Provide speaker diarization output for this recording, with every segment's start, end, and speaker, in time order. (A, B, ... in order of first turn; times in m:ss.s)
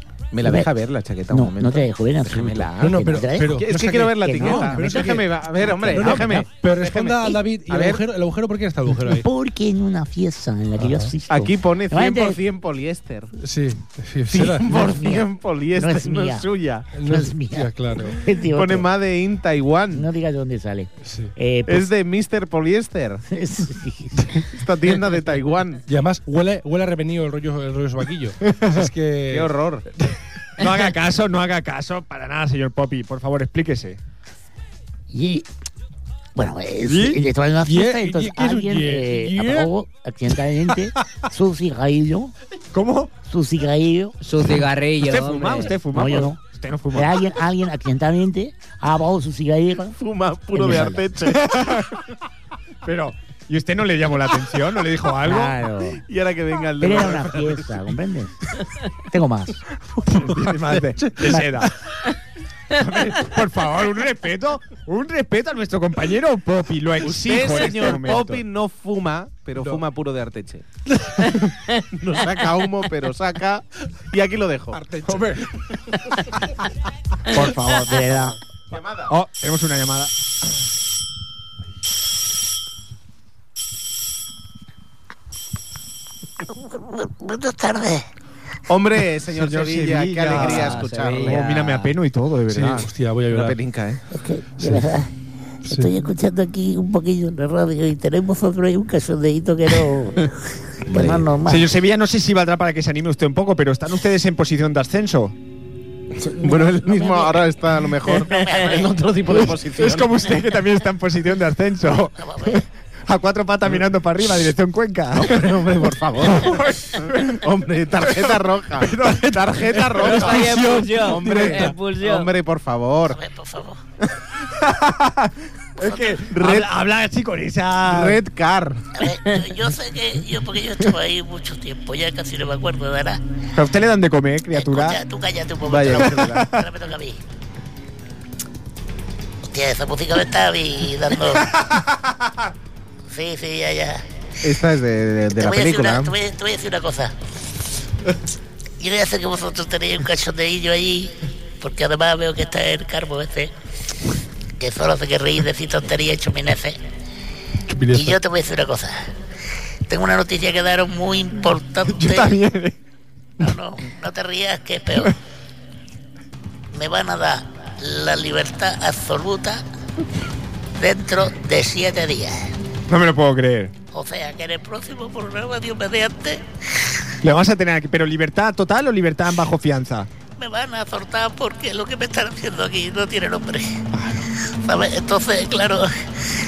0:00.3-0:08.0 A
0:00.4-0:00.7 B
0:01.3-0:06.4 B
0:02.8-0:05.3 C
0:05.8-0:09.3 C
0:09.1-0:12.4 B
0:10.8-0:11.1 C
0:11.3-0:13.4 A
0:13.4-0:14.7 C
0:14.3-0:16.9 A
0:14.7-0:16.5 B
0:16.9-0:18.2 C
0:17.0-0:18.9 B
0:18.4-0:20.1 A
0:19.9-0:21.9 B
0:21.0-0:21.3 C
0:21.7-0:23.2 A
0:23.3-0:24.4 B
0:24.3-0:25.8 A
0:25.9-0:29.5 C
0:28.5-0:28.9 D
0:29.3-0:29.9 A
0:30.0-0:34.0 D
0:35.1-0:35.5 B
0:36.4-0:42.3 B
0:36.9-0:37.2 D
0:37.6-0:39.7 C
0:42.7-0:43.1 D
0:43.3-0:44.2 B
0:44.2-0:45.8 E
0:45.0-0:47.2 D
0:45.9-0:46.4 B
0:46.9-0:50.0 B
0:50.0-0:51.9 A
0:50.5-0:51.1 B
0:51.4-0:52.0 D
0:52.8-0:55.6 D
0:55.2-0:56.0 B
0:55.9-0:57.9 A
0:56.8-0:58.3 B
0:59.1-0:59.6 B
1:00.1-1:01.8 D
1:02.7-1:08.4 D
1:07.0-1:10.7 A
1:11.9-1:14.8 A
1:14.8-1:15.2 C
1:15.0-1:15.5 D
1:17.3-1:18.2 D
1:17.9-1:18.4 B
1:18.7-1:19.1 A
1:19.1-1:20.1 D
1:26.7-1:28.1 F
1:28.7-1:31.5 A
1:29.4-1:32.9 D
1:30.3-1:31.9 E
1:32.5-1:33.6 C
1:33.3-1:34.0 A
1:34.1-1:35.1 B
1:35.7-1:40.3 B
1:40.9-1:41.7 B
1:40.9-1:41.2 A
1:41.5-1:45.4 D
1:46.2-1:50.3 A
1:48.2-1:49.0 F
1:49.3-1:55.6 D
1:52.2-1:52.6 F
1:55.1-2:03.2 A
1:56.3-1:57.5 D
1:58.0-2:00.4 D
2:00.0-2:02.3 E
2:00.4-2:01.8 C
2:03.1-2:03.8 F
2:04.5-2:08.2 D
2:06.3-2:06.7 A
2:07.9-2:08.8 A
2:09.0-2:13.2 F
2:13.6-2:15.0 D
2:14.5-2:17.2 F
2:15.6-2:16.5 A
2:16.1-2:16.5 D
2:19.5-2:21.6 F
2:23.1-2:24.0 F
2:24.4-2:26.1 A
2:25.4-2:27.1 F
2:28.8-2:33.5 F
2:34.6-2:36.8 F
2:37.7-2:38.2 C
2:37.9-2:39.0 F
2:39.9-2:42.3 F
2:41.9-2:42.8 D
2:43.4-2:45.2 F
2:46.7-2:49.6 F
2:50.8-2:52.5 F
2:52.9-2:53.7 D
2:53.9-2:56.9 F
2:57.2-3:00.1 D
3:00.4-3:03.8 F
3:03.9-3:04.3 D
3:04.6-3:05.9 F